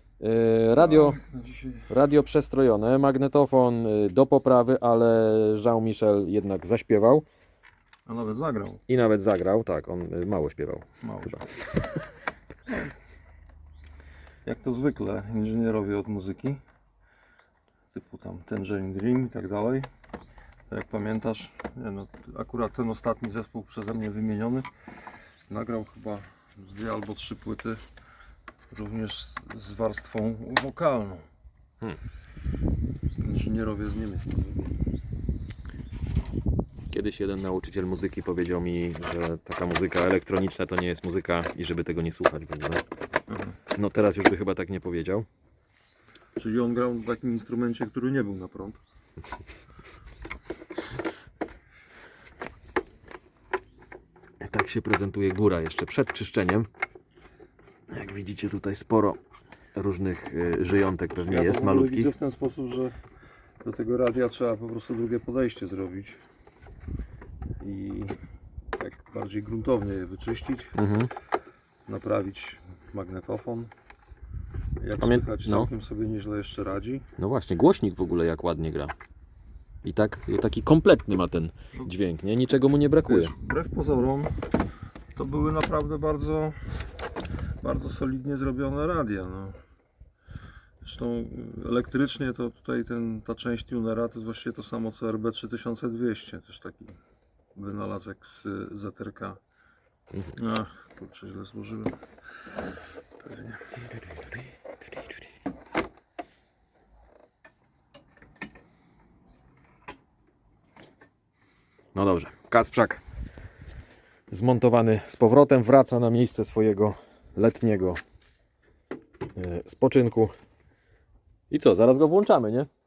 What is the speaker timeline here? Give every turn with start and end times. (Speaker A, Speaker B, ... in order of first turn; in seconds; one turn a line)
Speaker A: 0.2-1.2
Speaker B: 0.8-1.9
Speaker A: 1.9-7.3
Speaker B: 8.1-8.8
Speaker A: 8.9-11.7
Speaker B: 11.0-11.6
Speaker B: 14.4-16.6
Speaker B: 17.9-19.9
Speaker B: 20.7-24.7
Speaker B: 25.5-27.8
Speaker B: 28.7-31.3
Speaker B: 33.2-34.8
Speaker A: 36.9-42.8
Speaker B: 43.3-43.6
Speaker A: 43.8-45.3
Speaker B: 46.4-48.8
Speaker A: 54.4-56.7
Speaker A: 57.9-59.2
Speaker A: 59.8-62.1
Speaker B: 61.2-63.0
Speaker B: 63.6-66.2
Speaker B: 67.6-68.2
Speaker B: 68.7-70.8
Speaker A: 70.8-71.1
Speaker B: 71.9-73.7
Speaker B: 74.8-77.0
Speaker A: 75.0-75.7
Speaker A: 77.2-78.9
Speaker A: 79.8-83.3
Speaker B: 83.0-84.4
Speaker B: 85.2-86.8
Speaker B: 87.6-89.6
Speaker B: 90.8-97.0
Speaker B: 97.5-99.4
Speaker B: 100.3-102.0
Speaker B: 103.2-103.8
Speaker A: 112.0-113.0
Speaker A: 114.3-118.0
Speaker A: 119.4-120.3
Speaker A: 121.5-122.7